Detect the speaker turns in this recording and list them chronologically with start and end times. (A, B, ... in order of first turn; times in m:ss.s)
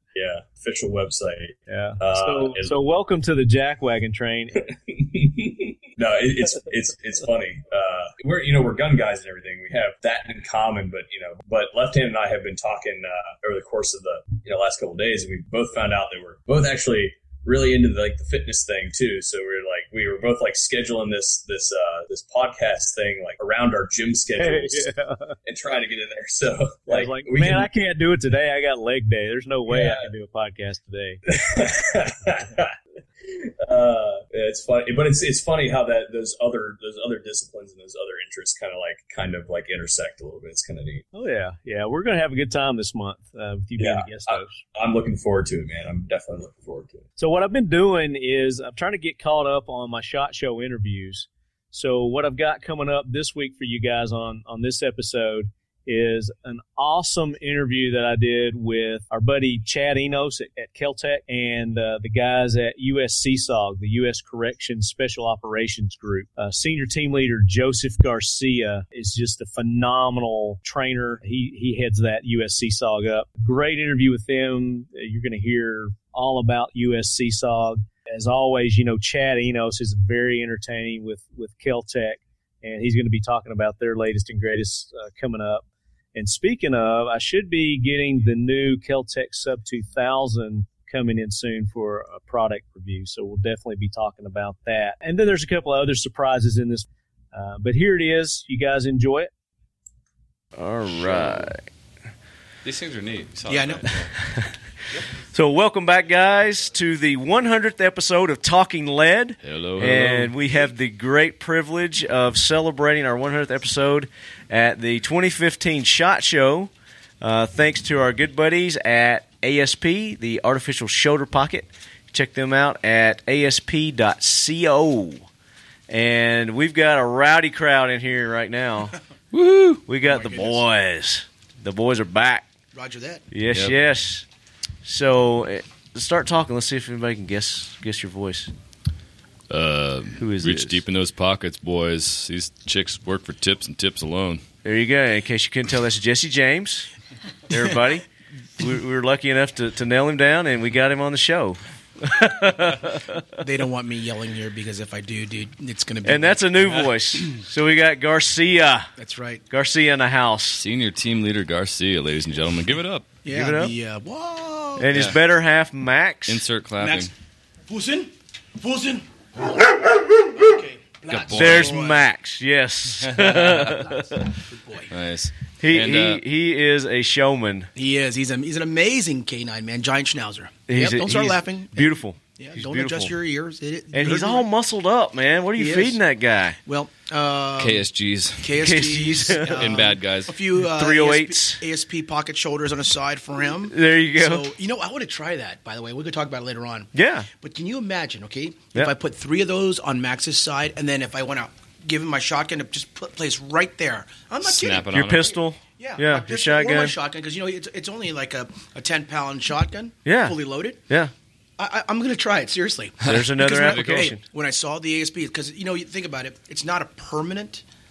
0:00.1-0:02.7 A
0:01.7-0:04.7 B
0:04.6-0:24.9 A
0:24.4-0:25.4 B
0:25.4-0:27.7 A
0:26.9-0:31.2 B
0:29.7-0:30.1 A
0:31.3-0:41.0 A
0:41.1-0:44.6 B
0:43.8-0:47.0 A
0:47.2-1:25.6 B
1:26.1-1:39.3 B
1:40.6-1:41.6 C
1:42.6-1:44.1 D
1:43.5-1:43.9 E
1:45.3-2:05.3 C
1:49.4-1:50.4 D
2:05.9-2:09.0 C
2:09.3-2:09.8 D
2:09.9-2:12.5 C
2:10.0-2:10.6 E
2:12.7-2:13.2 E
2:13.3-2:14.2 C
2:13.5-2:13.8 D
2:14.8-2:18.5 C
2:19.5-2:24.4 D
2:20.2-2:20.8 C
2:24.6-2:26.9 C
2:27.5-2:28.1 C
2:28.6-2:33.2 C
2:33.4-2:36.9 E
2:36.0-2:38.9 C
2:39.0-2:39.4 E
2:39.5-2:40.6 C
2:40.5-2:43.1 D
2:43.2-2:45.1 E
2:43.3-2:43.7 C
2:44.8-2:46.4 C
2:44.9-2:45.2 D
2:46.3-2:47.1 D
2:46.8-2:47.1 E
2:47.7-2:52.1 E
2:51.1-2:51.8 D
2:51.3-2:54.3 C
2:53.1-2:53.6 D
2:53.9-2:54.9 E
2:54.9-2:56.2 D
2:55.6-2:57.7 C
2:57.7-3:04.5 E
3:00.7-3:03.1 C
3:03.9-3:06.6 C
3:05.6-3:06.0 E
3:06.6-3:07.9 E
3:07.6-3:08.6 D
3:08.4-3:25.2 E
3:08.6-3:09.8 C
3:09.4-3:10.4 D
3:10.6-3:11.6 C
3:13.7-3:14.5 C
3:16.9-3:17.3 C
3:24.4-3:25.4 D
3:24.9-3:26.9 C
3:25.8-3:30.8 E
3:30.0-3:30.4 C
3:31.6-3:37.6 E
3:33.0-3:34.1 D
3:33.0-3:34.2 C